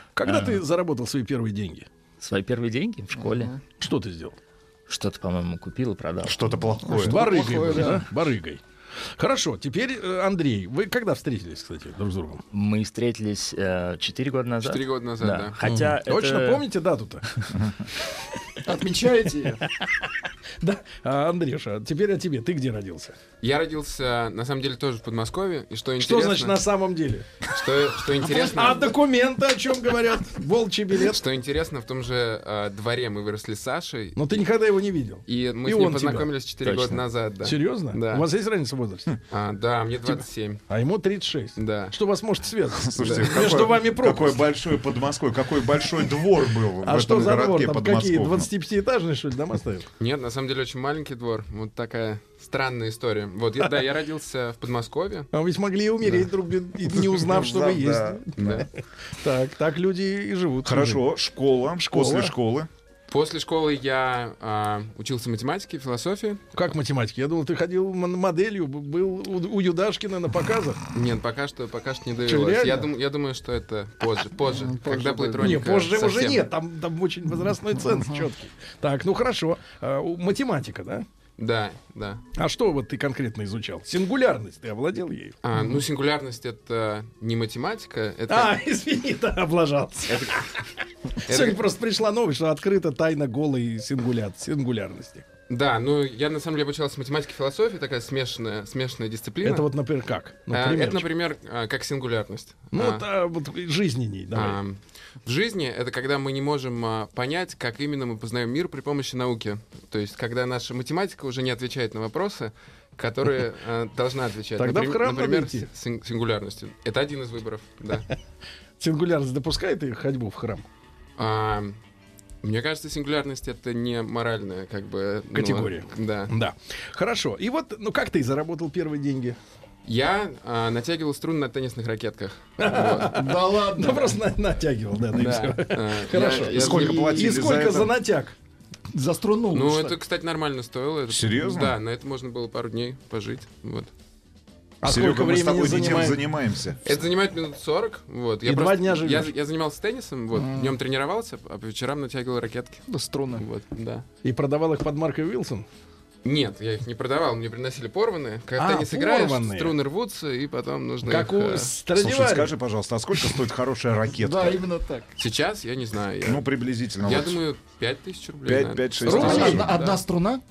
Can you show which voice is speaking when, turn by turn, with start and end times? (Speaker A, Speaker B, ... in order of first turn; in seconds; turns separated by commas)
Speaker A: 0.2-1.9, Speaker B: 0.2-0.6, Speaker B: 2.2-3.5, Speaker C: 3.2-3.6, Speaker A: 3.8-4.4, Speaker B: 4.9-6.4, Speaker D: 6.2-8.0, Speaker C: 6.9-8.1, Speaker A: 7.0-8.6, Speaker A: 9.2-12.4, Speaker B: 12.5-16.6, Speaker E: 14.6-15.6, Speaker A: 15.6-17.2, Speaker C: 18.6-19.6, Speaker A: 19.6-23.1, Speaker E: 23.4-26.6, Speaker A: 26.0-27.3, Speaker E: 27.4-28.9, Speaker A: 28.2-31.2, Speaker E: 31.0-34.4, Speaker A: 34.2-36.3, Speaker E: 35.3-38.3, Speaker B: 36.6-37.0, Speaker A: 37.4-39.1, Speaker E: 39.3-40.6, Speaker A: 40.1-44.4, Speaker E: 41.6-42.0, Speaker D: 42.8-48.5, Speaker E: 43.0-43.7, Speaker A: 46.9-49.9, Speaker E: 50.0-55.3, Speaker A: 55.3-61.0, Speaker D: 57.3-58.7, Speaker E: 58.4-58.7, Speaker D: 60.6-62.7, Speaker A: 61.8-62.3, Speaker E: 63.1-66.4, Speaker A: 66.5-70.8, Speaker E: 70.9-76.5, Speaker A: 72.2-72.9, Speaker C: 74.5-75.7, Speaker A: 75.4-81.1, Speaker C: 77.9-78.3, Speaker E: 81.4-82.2, Speaker A: 82.4-85.4, Speaker E: 85.4-88.5, Speaker A: 88.3-90.6, Speaker E: 90.1-90.3, Speaker A: 91.3-95.2, Speaker E: 91.3-91.6, Speaker E: 95.5-99.7, Speaker A: 99.4-101.1, Speaker E: 100.5-103.1, Speaker A: 102.7-104.6, Speaker E: 104.3-118.1, Speaker A: 114.6-115.7, Speaker A: 118.8-120.7, Speaker E: 121.2-121.8, Speaker E: 122.4-126.3, Speaker A: 125.3-129.4, Speaker E: 129.9-133.2, Speaker A: 132.6-138.3, Speaker C: 133.1-134.2, Speaker E: 135.1-137.5, Speaker D: 136.5-137.9, Speaker C: 138.9-140.0, Speaker E: 139.5-143.9, Speaker D: 141.1-141.8, Speaker A: 144.8-146.2, Speaker D: 144.8-146.8, Speaker E: 146.8-154.1, Speaker A: 148.4-149.3, Speaker C: 150.3-150.8, Speaker C: 152.9-153.4, Speaker A: 154.2-155.7, Speaker E: 156.2-161.7, Speaker A: 158.6-159.8, Speaker A: 161.1-162.6, Speaker D: 161.9-164.6, Speaker C: 164.2-165.1, Speaker E: 165.2-166.5, Speaker D: 166.2-167.4, Speaker E: 167.0-170.0, Speaker D: 168.4-169.7, Speaker A: 169.1-169.6, Speaker C: 169.1-170.4